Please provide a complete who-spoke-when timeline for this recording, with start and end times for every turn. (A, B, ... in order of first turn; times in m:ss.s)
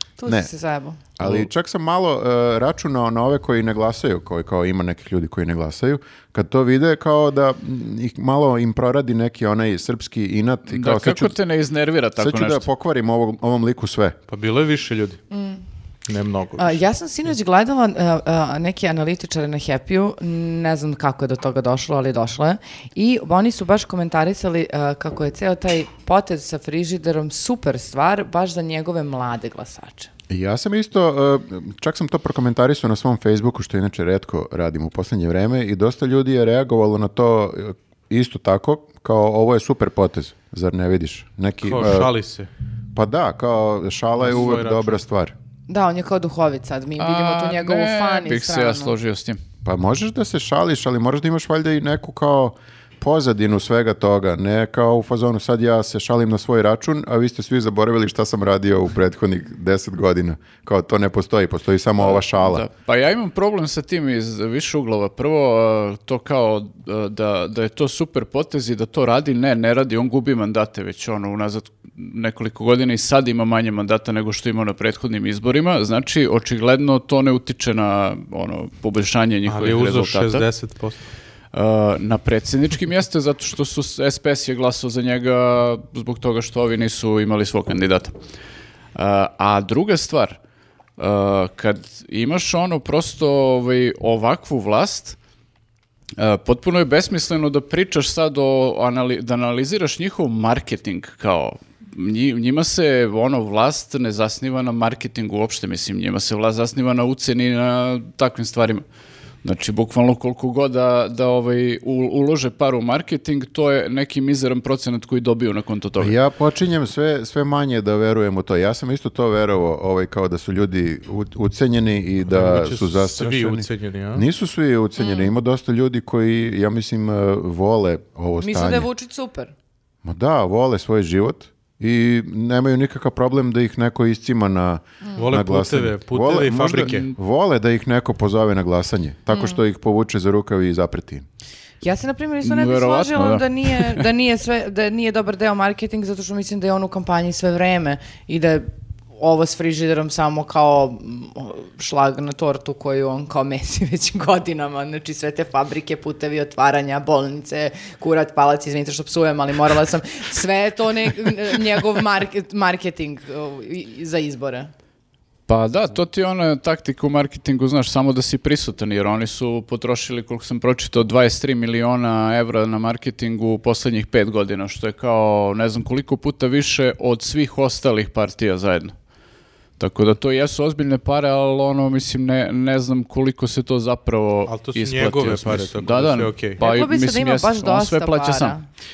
0:00.2-0:01.0 A
0:01.2-0:11.3 B
0:01.2-0:01.5 C
0:10.7-0:12.6 C
0:12.2-0:14.2 B
0:14.3-0:15.2 D
0:15.3-0:15.6 A
0:16.0-0:16.8 D
0:16.6-0:30.1 A
0:30.3-0:42.1 B
0:41.6-0:42.5 D
0:42.9-0:45.3 B
0:44.2-0:45.0 D
0:45.7-0:48.9 A
0:47.0-0:49.4 C
0:49.6-1:02.6 B
1:02.0-1:20.5 C
1:19.5-1:21.0 D
1:21.5-1:28.2 C
1:28.9-1:30.4 C
1:31.0-1:35.2 C
1:36.2-1:48.8 C
1:49.4-1:56.2 C
1:56.0-2:08.9 B
2:02.3-2:04.2 D
2:05.0-2:05.3 A
2:08.4-2:09.5 A
2:10.0-2:21.2 B
2:15.0-2:15.3 A
2:15.2-2:17.1 D
2:19.3-2:19.6 A
2:21.8-2:44.7 A
2:22.4-2:24.0 C
2:45.5-2:58.9 C
2:59.8-3:08.5 C
3:04.5-3:06.6 D
3:06.6-3:08.6 A